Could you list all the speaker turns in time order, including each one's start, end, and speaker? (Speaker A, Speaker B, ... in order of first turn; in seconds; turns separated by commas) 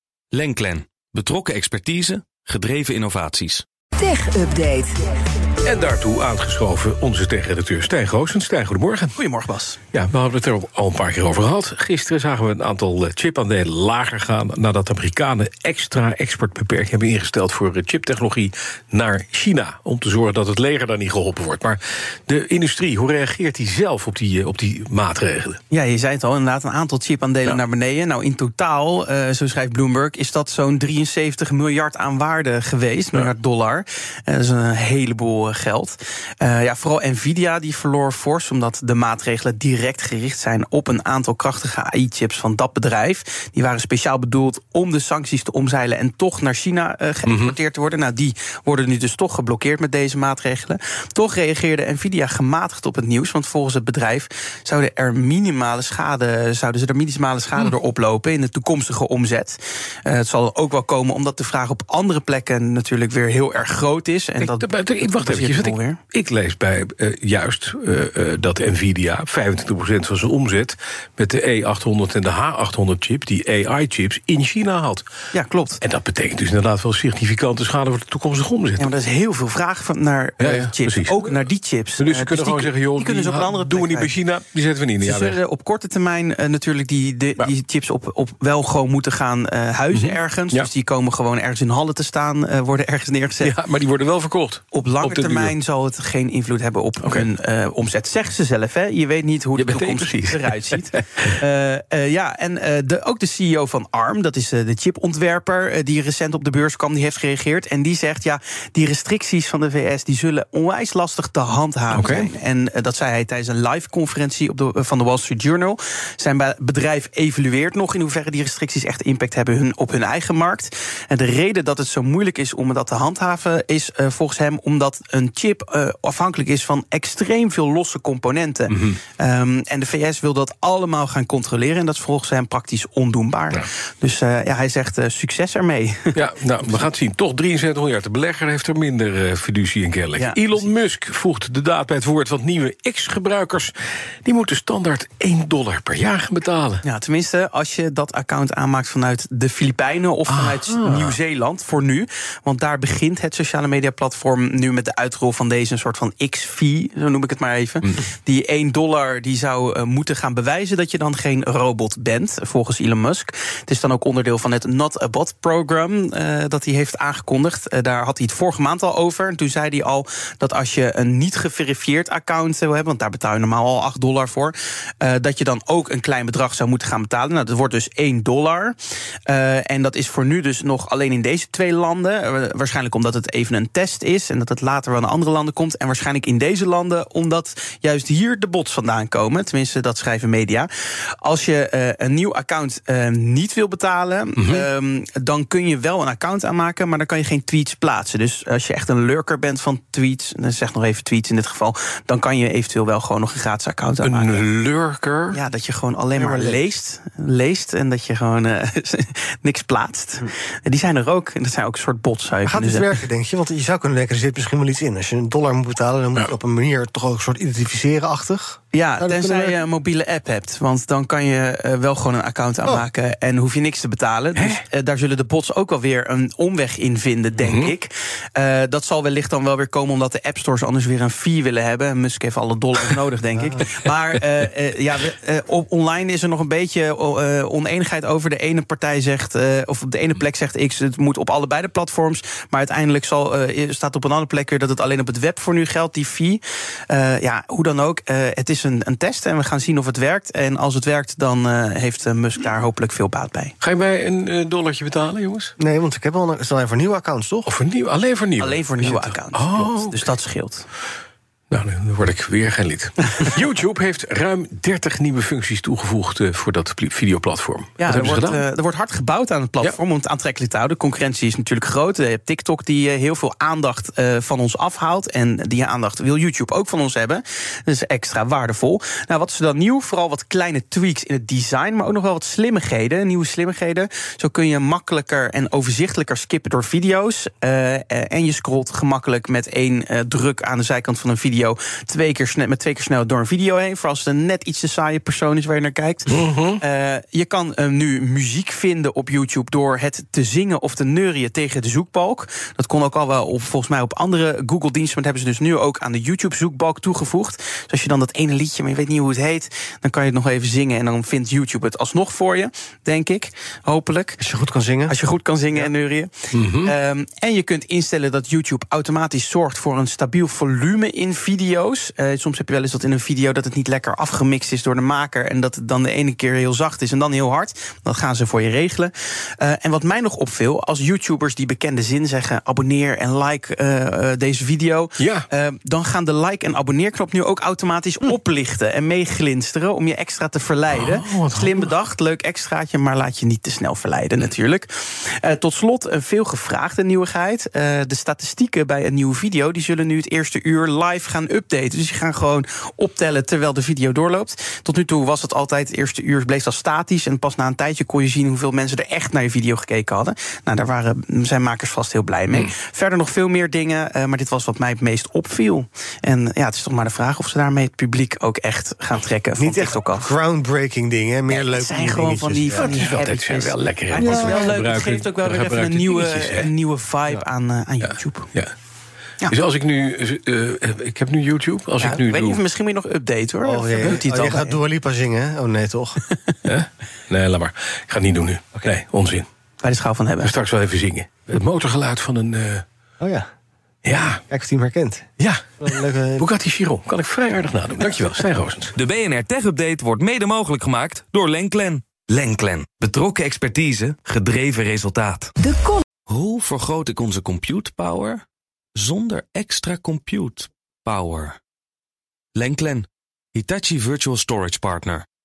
Speaker A: 0.3-3.6, Speaker B: 4.0-5.0, Speaker C: 5.6-9.1, Speaker D: 9.2-9.8, Speaker C: 9.9-25.6, Speaker D: 25.7-66.0, Speaker C: 47.2-47.6, Speaker C: 64.4-75.0, Speaker D: 75.3-75.8, Speaker C: 75.8-78.9, Speaker D: 78.8-84.1, Speaker C: 80.4-85.4, Speaker D: 85.0-93.5, Speaker C: 89.9-90.7, Speaker C: 93.4-95.5, Speaker D: 94.7-136.1, Speaker C: 97.0-97.3, Speaker C: 99.5-101.4, Speaker C: 111.9-112.3, Speaker C: 128.7-129.0, Speaker C: 136.1-146.8, Speaker D: 140.2-140.7, Speaker D: 146.8-190.7, Speaker C: 150.3-151.2, Speaker D: 191.2-204.4, Speaker C: 194.3-194.7, Speaker C: 204.0-205.4, Speaker D: 205.3-212.9, Speaker E: 206.1-206.6, Speaker E: 212.4-219.6, Speaker D: 218.7-253.6, Speaker C: 224.3-224.6, Speaker C: 227.3-227.7, Speaker E: 233.3-233.6, Speaker C: 253.6-255.5, Speaker E: 255.6-257.5, Speaker C: 257.4-260.1, Speaker D: 258.4-260.7, Speaker C: 261.5-268.4, Speaker D: 267.8-314.2, Speaker C: 296.1-296.6, Speaker E: 314.2-314.9, Speaker D: 314.9-370.1, Speaker C: 316.3-316.7, Speaker C: 335.0-335.3, Speaker C: 340.7-341.7, Speaker E: 369.4-373.0, Speaker D: 371.3-373.2, Speaker C: 372.5-376.5, Speaker A: 372.9-374.2, Speaker E: 374.0-374.6, Speaker D: 374.2-378.3, Speaker C: 377.8-378.5, Speaker C: 379.3-382.4, Speaker D: 381.8-384.6, Speaker E: 383.4-386.0, Speaker D: 386.0-386.3, Speaker C: 386.4-389.3, Speaker D: 389.6-390.3, Speaker C: 390.2-392.6, Speaker E: 393.0-393.3, Speaker C: 393.8-394.2, Speaker E: 394.3-395.0, Speaker C: 395.2-398.8, Speaker E: 395.6-396.2, Speaker A: 398.8-405.3, Speaker B: 398.8-404.6, Speaker B: 405.4-405.8, Speaker A: 406.1-408.2, Speaker A: 408.8-411.4, Speaker A: 412.4-415.0